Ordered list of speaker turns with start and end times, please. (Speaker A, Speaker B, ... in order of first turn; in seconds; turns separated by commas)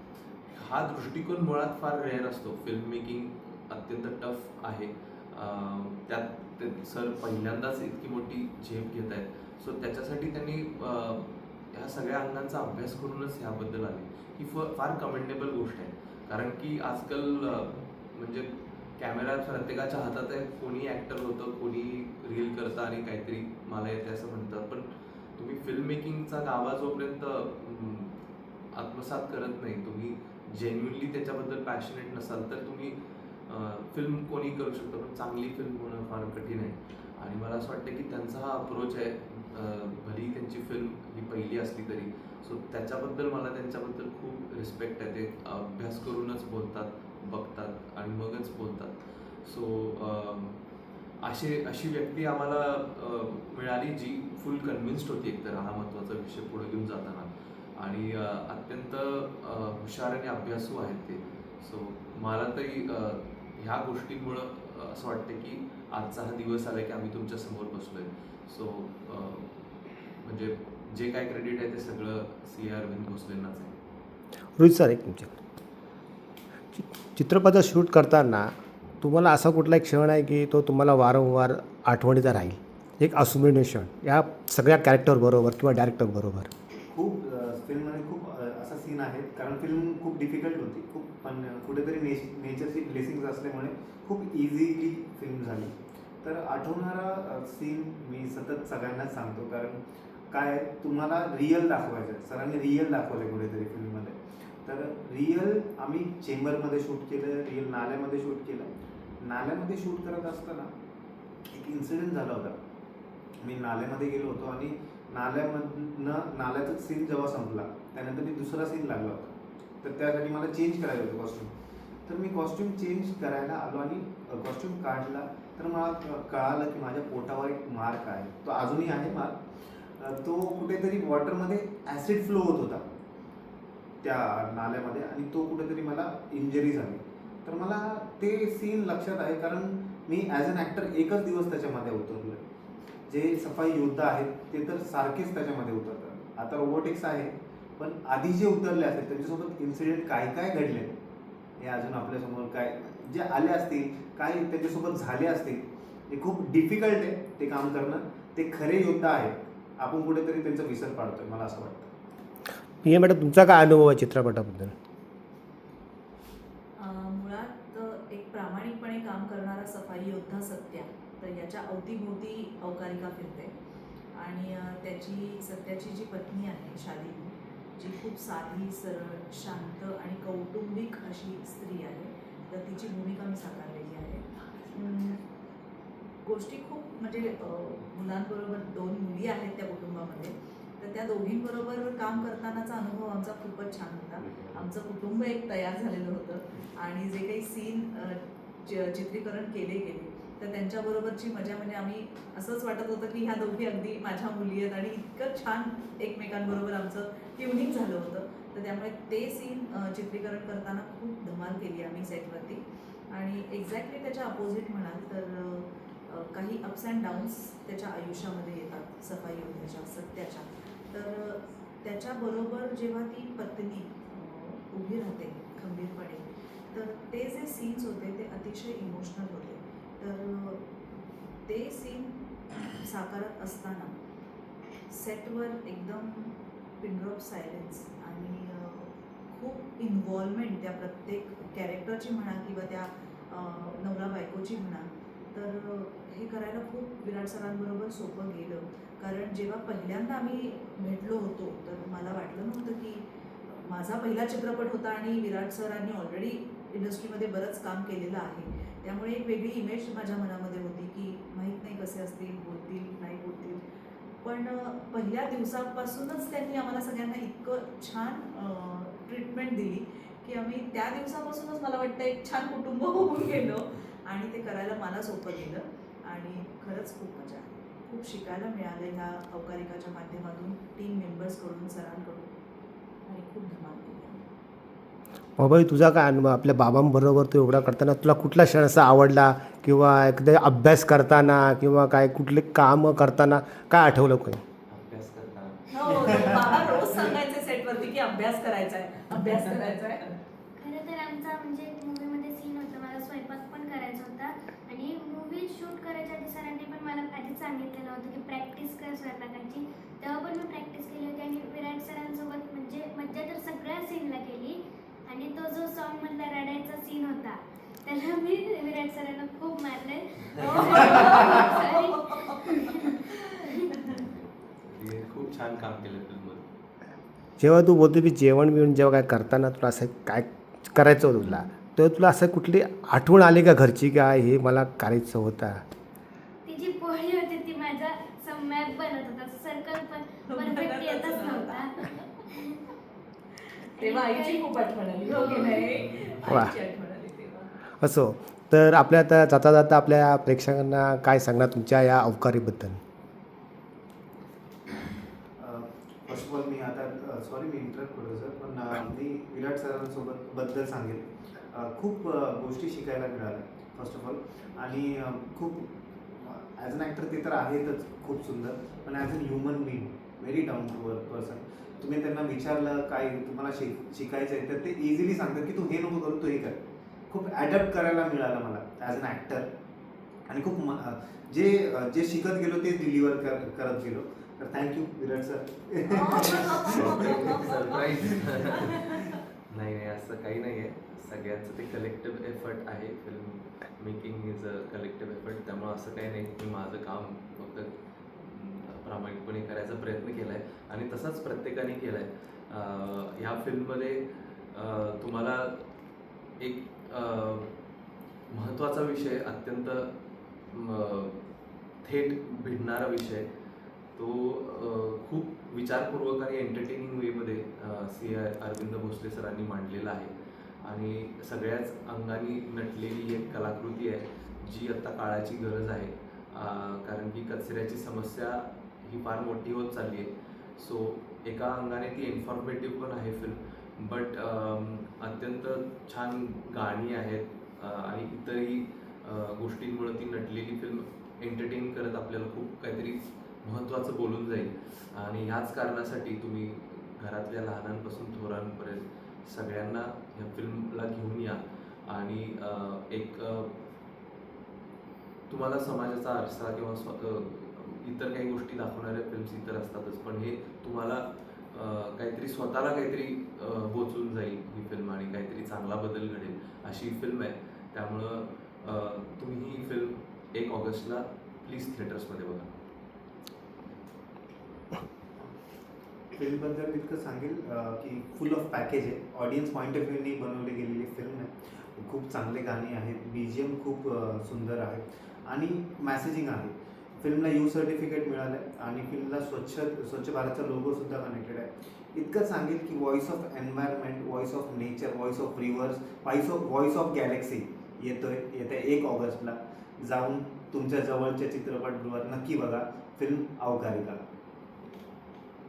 Speaker A: 0.5-24.9, Speaker A: 25.4-28.1, Speaker A: 28.7-33.0, Speaker A: 33.5-50.6, Speaker A: 51.2-69.5, Speaker A: 70.2-73.7, Speaker B: 74.6-75.3, Speaker B: 76.7-86.5, Speaker C: 86.9-99.8, Speaker C: 100.3-110.7, Speaker C: 111.5-112.5, Speaker C: 113.4-121.5, Speaker C: 122.1-129.4, Speaker C: 130.0-132.8, Speaker C: 134.0-142.4, Speaker C: 143.1-150.9, Speaker C: 151.6-161.9, Speaker B: 162.8-164.7, Speaker D: 166.8-173.5, Speaker D: 174.1-185.2, Speaker D: 186.2-230.7, Speaker D: 231.4-232.2, Speaker D: 232.7-233.9, Speaker D: 234.9-263.6, Speaker D: 264.2-282.3, Speaker D: 283.1-284.2, Speaker B: 285.4-294.4, Speaker A: 294.7-296.9, Speaker D: 295.7-300.1, Speaker E: 300.6-323.7, Speaker D: 320.4-322.2, Speaker A: 320.5-321.2, Speaker A: 323.8-326.4, Speaker B: 327.4-335.6, Speaker E: 336.4-341.8, Speaker D: 340.2-342.2, Speaker D: 343.4-347.5, Speaker E: 343.8-345.7, Speaker B: 346.2-346.5, Speaker B: 347.8-352.8, Speaker C: 355.4-379.5, Speaker C: 380.3-388.2, Speaker D: 385.9-387.9, Speaker A: 386.7-405.6, Speaker D: 388.5-389.1, Speaker A: 406.4-407.5, Speaker A: 408.3-409.9, Speaker A: 410.5-411.2, Speaker A: 411.8-413.3, Speaker A: 413.9-420.1, Speaker A: 420.6-453.5, Speaker A: 455.3-472.5, Speaker C: 476.1-504.0